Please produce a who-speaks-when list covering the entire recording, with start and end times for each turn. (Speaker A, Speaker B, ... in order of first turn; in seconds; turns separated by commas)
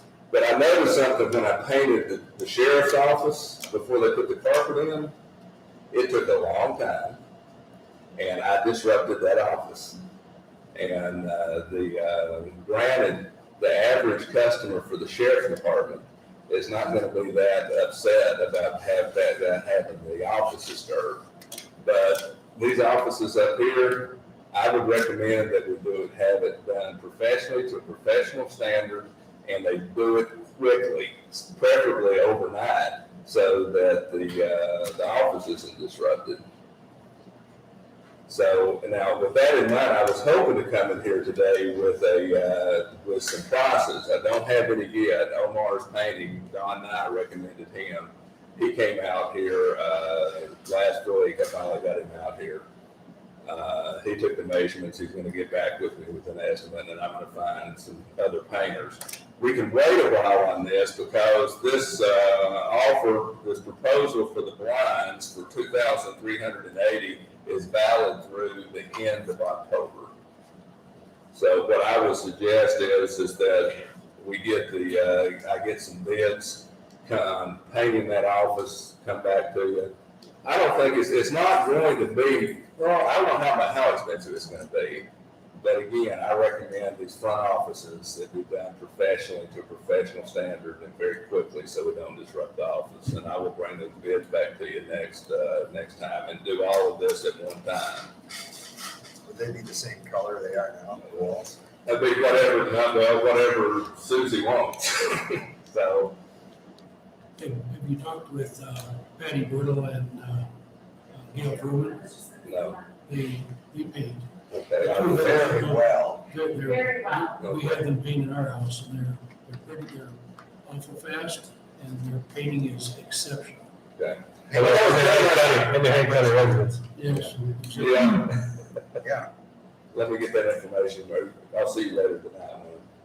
Speaker A: 0.3-5.1, Speaker A: 5.9-7.2, Speaker A: 8.2-10.0, Speaker A: 10.7-21.2, Speaker A: 21.8-36.4, Speaker A: 38.3-52.7, Speaker A: 53.4-70.1, Speaker A: 71.3-98.1, Speaker B: 99.2-101.6, Speaker A: 101.0-101.3, Speaker A: 101.8-106.2, Speaker C: 107.4-110.5, Speaker C: 111.1-112.2, Speaker A: 112.4-112.8, Speaker C: 113.0-123.7, Speaker A: 114.5-115.7, Speaker B: 114.9-116.3, Speaker A: 117.4-117.8, Speaker A: 124.0-126.5, Speaker B: 124.5-126.0, Speaker D: 124.5-126.8, Speaker C: 126.9-128.3, Speaker A: 127.7-128.6, Speaker B: 129.0-129.3, Speaker A: 129.9-132.8